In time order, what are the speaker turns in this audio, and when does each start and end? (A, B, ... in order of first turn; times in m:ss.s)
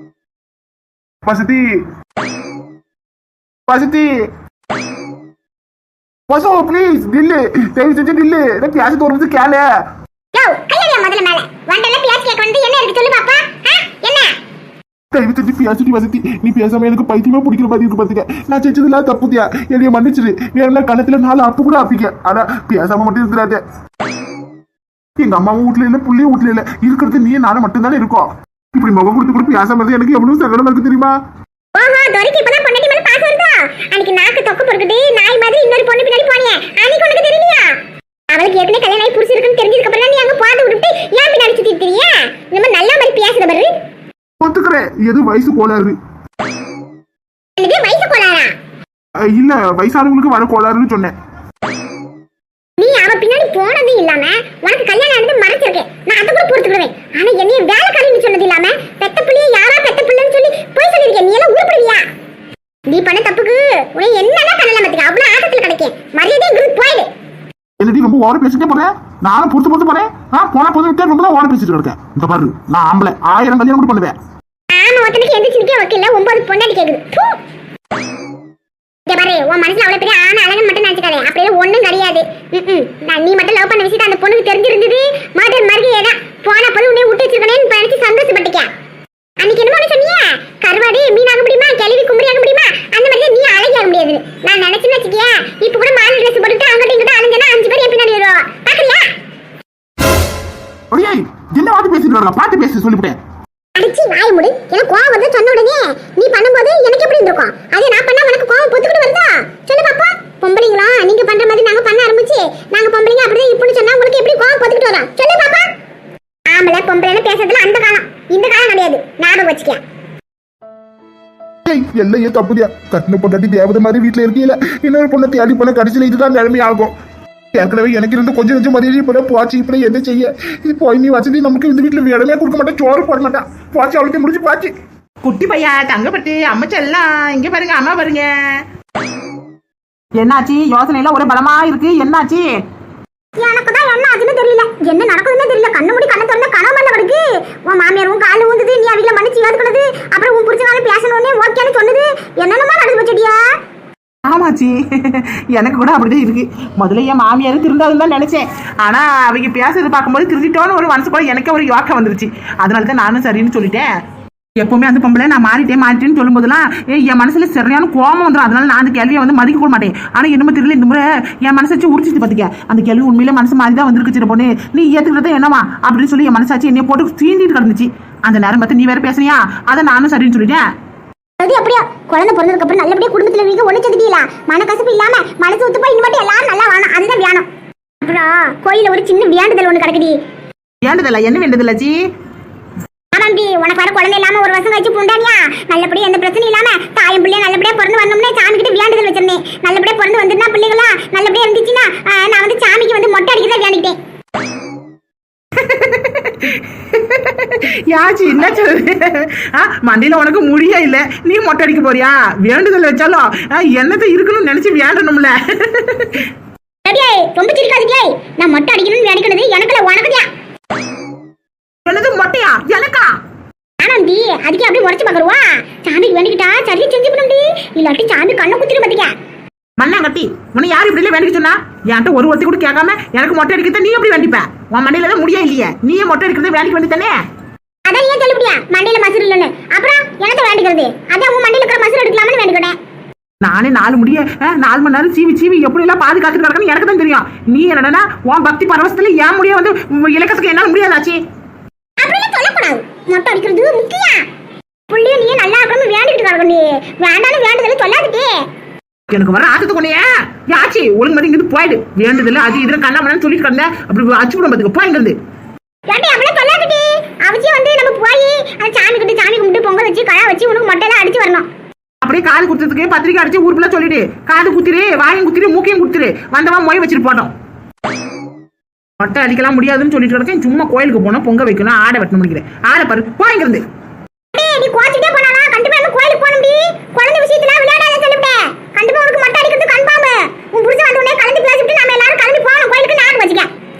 0:01.2-0:01.7 A
0:03.7-0:04.3 A
0:06.3-0:09.6 A
0:10.3-0:14.4 B
0:15.1-0:23.6 A
0:25.2-0:31.2 A
0:31.7-0:37.8 B
0:38.3-0:43.7 B
0:44.4-0:46.0 A
0:47.6-0:48.5 B
0:49.2-0:51.1 A
0:52.8-1:02.1 B
1:02.9-1:07.1 B
1:07.8-1:14.2 A
1:14.7-1:17.4 B
1:19.1-1:28.7 B
1:29.4-1:39.2 B
1:40.9-1:43.2 A
1:43.8-1:55.7 B
1:56.5-1:59.8 B
2:01.6-2:06.9 A
2:07.5-2:14.7 A
2:15.2-2:18.6 C
2:20.2-2:22.6 C
2:23.4-2:33.5 B
2:34.2-2:44.0 C
2:44.6-3:00.7 C
3:01.4-3:07.5 B
3:08.0-3:10.2 B
3:10.8-3:12.0 C
3:13.1-3:24.0 B
3:25.6-3:36.3 C
3:36.8-3:40.3 B
3:41.8-3:43.1 C
3:43.8-3:49.1 B
3:49.8-3:57.2 C
3:57.8-4:02.8 B
4:03.4-4:11.2 C
4:12.0-4:14.3 B
4:14.9-4:18.4 B
4:19.1-4:25.2 C
4:25.9-4:31.5 B
4:32.0-4:37.3 C
4:39.0-4:43.6 C
4:44.3-4:53.5 B